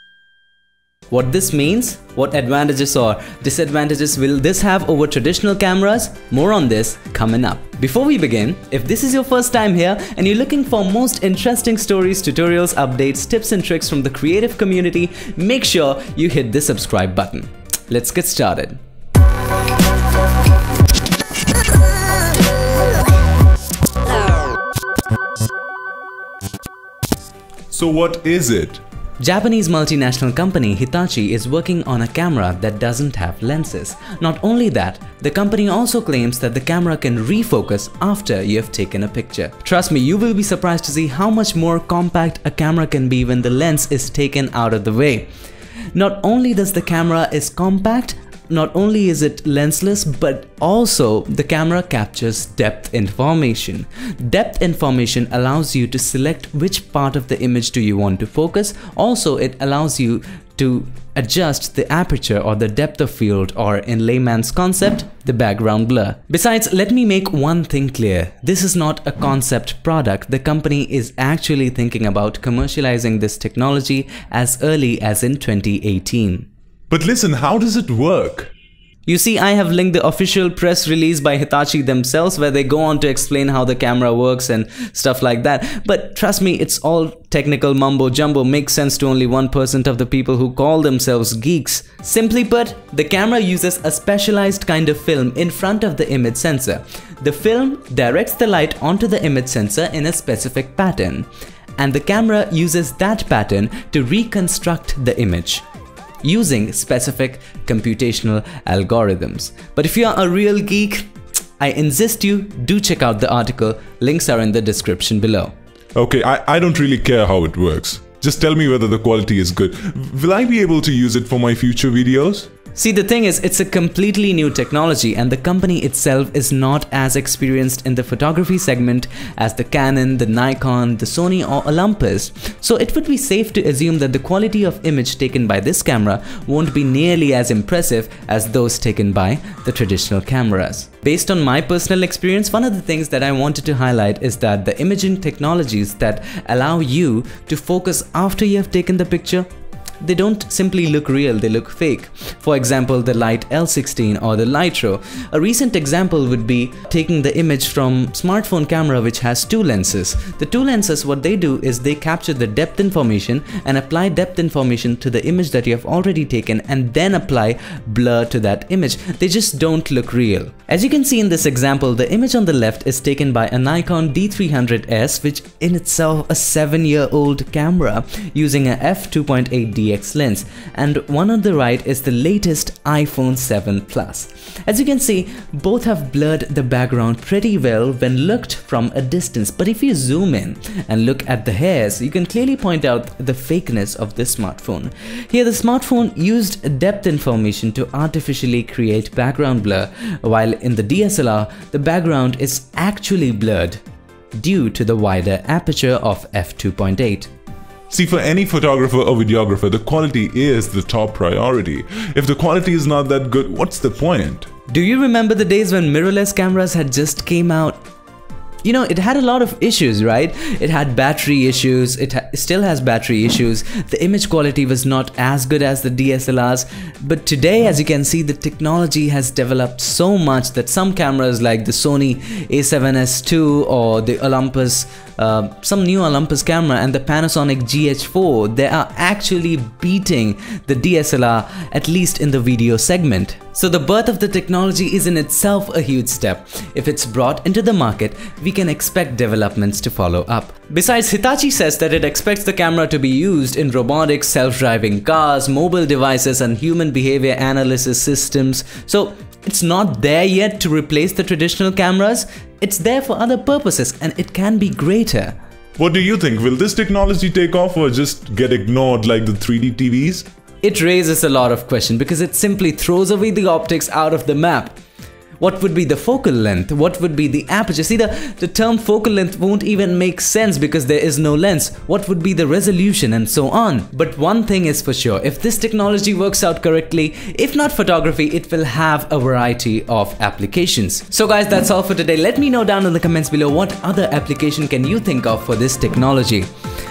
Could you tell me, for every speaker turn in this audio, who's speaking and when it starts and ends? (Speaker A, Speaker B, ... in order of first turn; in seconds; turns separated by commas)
Speaker A: 1.1-18.8, Speaker B: 27.7-28.8, Speaker A: 29.2-45.3, Speaker A: 45.9-76.5, Speaker B: 76.9-78.5, Speaker A: 79.1-105.7, Speaker A: 106.2-115.5, Speaker B: 116.0-122.5, Speaker A: 122.8-149.5, Speaker A: 150.0-203.8, Speaker A: 204.3-207.3, Speaker B: 207.9-214.5, Speaker A: 214.7-217.8, Speaker A: 218.6-265.4, Speaker B: 265.8-270.3, Speaker A: 270.6-274.8, Speaker A: 275.4-296.5